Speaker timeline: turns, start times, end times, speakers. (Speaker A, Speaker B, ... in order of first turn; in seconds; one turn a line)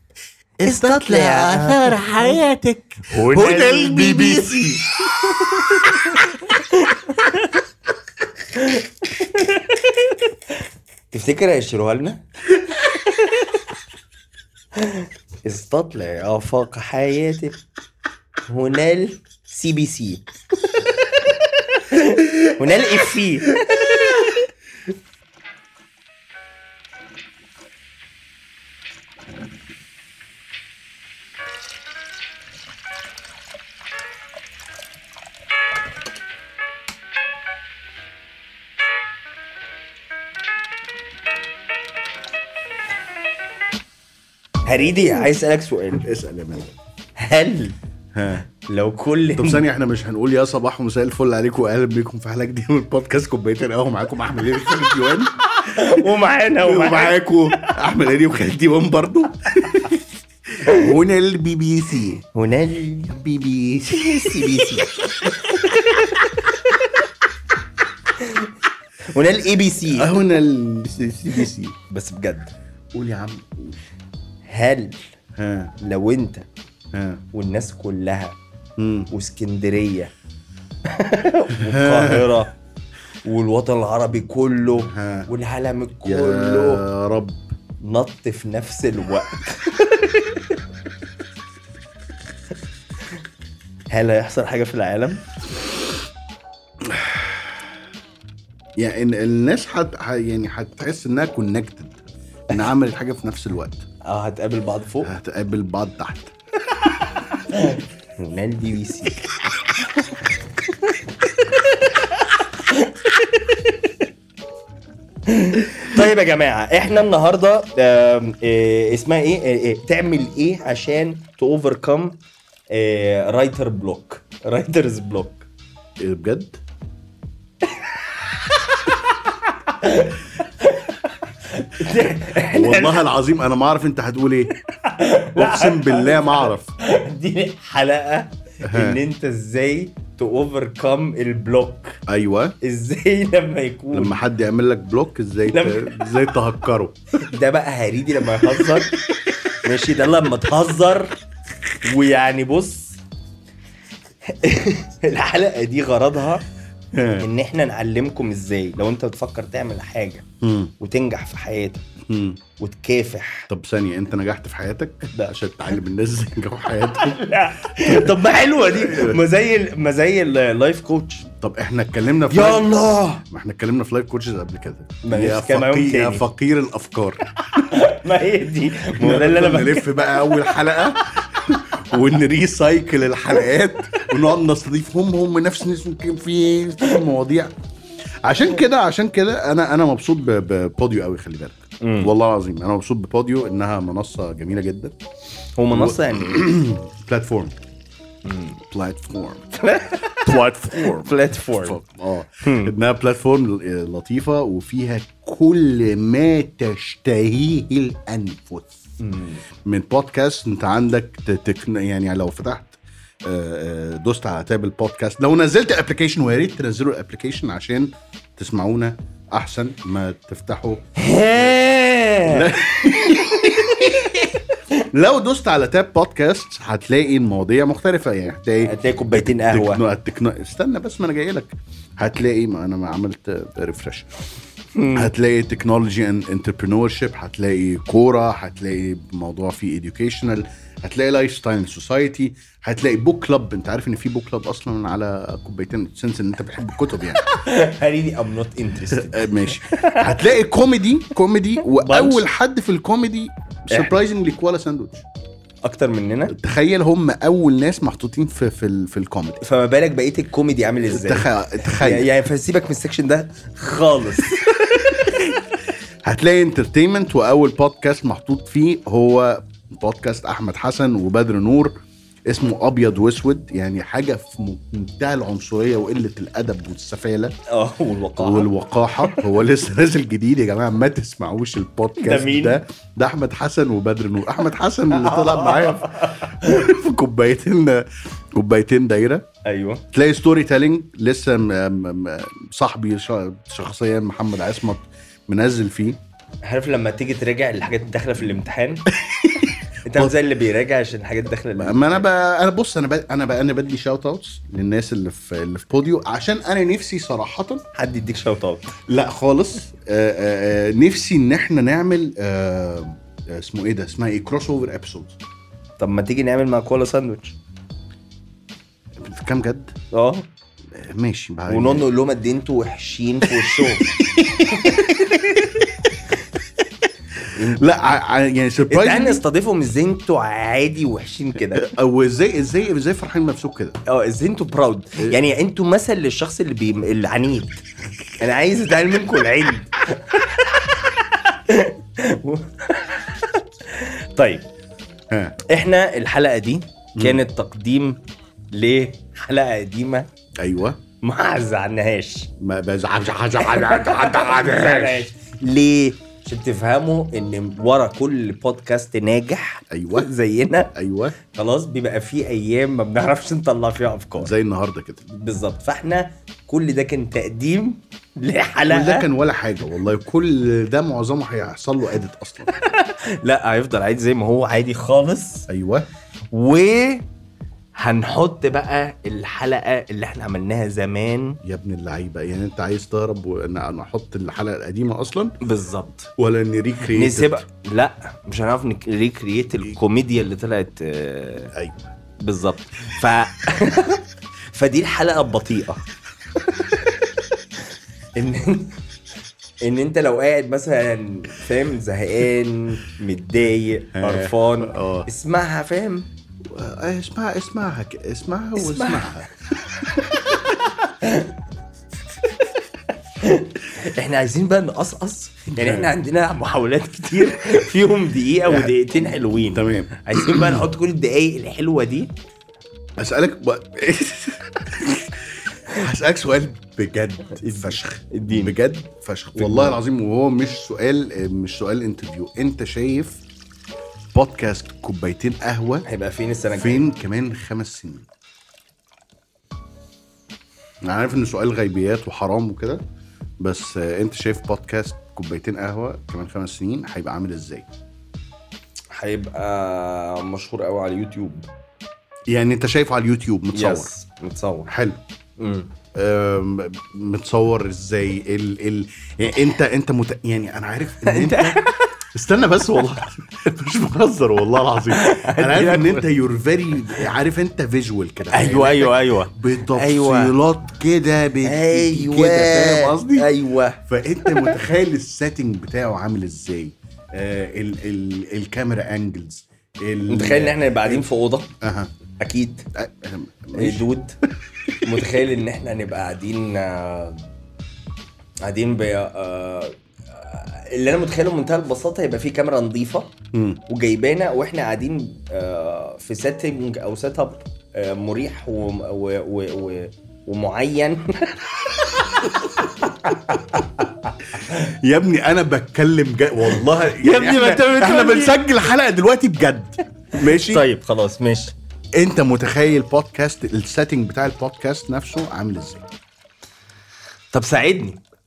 Speaker A: 0.6-2.4
Speaker B: 0.6-6.5
Speaker A: 3.1-7.6
Speaker A: 8.5-10.5
Speaker A: 11.1-12.2
Speaker A: 12.9-13.5
Speaker A: 14.8-17.6
Speaker A: 18.5-20.3
Speaker A: 21.7-24.3
Speaker A: 44.6-46.1
Speaker B: 46.0-46.7
Speaker A: 47.2-47.8
Speaker B: 48.1-48.4
Speaker A: 48.6-49.6
Speaker B: 49.4-55.9
Speaker A: 55.6-57.8
Speaker B: 56.6-62.2
Speaker A: 62.2-63.2
Speaker B: 63.0-64.9
Speaker A: 63.9-66.2
Speaker A: 68.2-68.5
Speaker A: 69.1-70.2
Speaker B: 69.9-71.8
Speaker A: 71.9-72.5
Speaker B: 72.9-73.8
Speaker A: 74.5-75.0
Speaker B: 75.4-75.7
Speaker A: 75.8-76.5
Speaker B: 76.9-77.2
Speaker A: 77.3-78.4
Speaker B: 78.8-79.1
Speaker A: 79.1-80.1
Speaker A: 80.9-82.5
Speaker B: 81.6-82.3
Speaker A: 83.2-86.8
Speaker B: 84.8-85.3
Speaker B: 86.0-87.5
Speaker A: 87.8-90.5
Speaker A: 93.9-95.2
Speaker B: 96.8-97.6
Speaker B: 98.8-103.8
Speaker A: 104.0-105.1
Speaker B: 105.0-107.3
Speaker A: 107.5-109.2
Speaker A: 110.9-114.0
Speaker A: 115.3-122.2
Speaker A: 122.7-125.5
Speaker B: 126.0-126.6
Speaker A: 127.7-133.0
Speaker B: 132.5-134.5
Speaker A: 134.7-142.0
Speaker B: 135.4-136.7
Speaker B: 138.6-139.0
Speaker B: 142.1-142.6
Speaker A: 142.6-144.2
Speaker B: 143.9-147.0
Speaker A: 145.5-146.1
Speaker A: 147.2-149.0
Speaker B: 148.4-148.8
Speaker A: 149.6-151.2
Speaker A: 151.8-153.0
Speaker A: 154.3-156.4
Speaker B: 156.9-157.3
Speaker A: 157.2-160.2
Speaker B: 160.4-160.7
Speaker A: 160.8-161.8
Speaker B: 162.0-162.4
Speaker A: 162.6-163.5
Speaker B: 163.5-169.2
Speaker A: 166.8-171.3
Speaker B: 171.3-177.8
Speaker A: 172.3-173.2
Speaker A: 175.0-176.2
Speaker A: 177.5-180.8
Speaker B: 179.0-187.5
Speaker B: 188.2-195.0
Speaker A: 191.8-192.1
Speaker A: 195.6-196.5
Speaker B: 195.7-197.6
Speaker A: 198.2-198.6
Speaker B: 198.7-199.5
Speaker A: 199.6-201.8
Speaker B: 200.1-208.8
Speaker A: 202.4-202.7
Speaker A: 209.0-209.4
Speaker B: 209.7-221.6
Speaker A: 221.0-224.3
Speaker B: 222.3-224.4
Speaker B: 224.9-234.1
Speaker A: 228.6-229.8
Speaker A: 234.8-235.1
Speaker B: 234.9-247.2
Speaker A: 247.2-250.3
Speaker B: 248.9-255.1
Speaker A: 251.7-252.2
Speaker A: 255.6-256.4
Speaker B: 256.3-259.4
Speaker A: 259.4-265.2
Speaker B: 260.9-262.1
Speaker B: 264.8-265.4
Speaker B: 266.0-271.8
Speaker B: 272.3-277.4
Speaker A: 277.5-279.2
Speaker B: 278.2-289.3
Speaker A: 282.0-282.6
Speaker A: 284.9-286.7
Speaker A: 289.5-289.8
Speaker B: 289.9-296.0
Speaker A: 296.4-298.9
Speaker B: 298.9-300.1
Speaker A: 299.9-302.0
Speaker B: 301.6-307.6
Speaker A: 307.8-308.7
Speaker B: 308.9-315.2
Speaker A: 315.8-317.4
Speaker B: 319.0-319.8
Speaker A: 319.9-320.3
Speaker B: 320.7-321.9
Speaker A: 321.5-325.7
Speaker B: 323.3-325.7
Speaker B: 327.2-329.2
Speaker A: 327.3-327.6
Speaker A: 328.7-331.7
Speaker B: 331.6-333.8
Speaker A: 333.9-337.6
Speaker A: 338.2-344.5
Speaker B: 345.1-345.4
Speaker A: 345.5-348.0
Speaker A: 348.5-350.1
Speaker B: 350.4-350.8
Speaker A: 351.0-352.3
Speaker B: 352.4-355.1
Speaker A: 353.4-360.7
Speaker B: 359.7-360.1
Speaker B: 360.8-361.2
Speaker A: 361.3-364.3
Speaker B: 364.2-365.0
Speaker A: 365.1-369.1
Speaker B: 368.7-372.5
Speaker A: 372.5-375.5
Speaker B: 375.5-375.9
Speaker A: 376.3-377.1
Speaker A: 377.8-381.4
Speaker B: 381.4-385.4
Speaker A: 385.4-386.1
Speaker B: 386.2-387.4
Speaker A: 386.9-391.5
Speaker B: 391.5-391.9
Speaker A: 392.2-395.8
Speaker A: 398.2-398.8
Speaker A: 399.6-406.1
Speaker B: 404.0-405.1
Speaker B: 406.4-410.7
Speaker A: 408.6-409.2
Speaker A: 411.0-411.3
Speaker A: 413.2-422.1
Speaker B: 415.6-415.9
Speaker B: 418.5-420.7
Speaker B: 423.0-433.2
Speaker A: 427.4-428.6
Speaker A: 429.4-429.8
Speaker B: 434.1-435.9
Speaker A: 435.9-436.9
Speaker B: 436.5-438.1
Speaker B: 440.8-442.8
Speaker B: 443.4-447.7
Speaker A: 448.9-451.5
Speaker B: 452.3-453.9
Speaker A: 453.5-454.7
Speaker B: 454.7-455.0
Speaker A: 455.4-455.7
Speaker B: 455.9-461.6
Speaker A: 461.0-462.0
Speaker B: 462.1-473.3
Speaker A: 464.9-466.1
Speaker A: 468.3-470.4
Speaker A: 471.4-474.6
Speaker B: 473.8-481.1
Speaker A: 480.1-481.5
Speaker B: 481.6-481.9
Speaker A: 482.2-482.7
Speaker B: 482.8-483.9
Speaker A: 483.6-484.2
Speaker A: 484.8-487.2
Speaker A: 488.4-493.1
Speaker B: 493.3-493.6
Speaker A: 493.7-504.5
Speaker B: 502.3-502.9
Speaker B: 504.3-510.7
Speaker A: 506.5-508.5
Speaker A: 510.2-511.6
Speaker B: 511.9-515.9
Speaker A: 517.3-518.0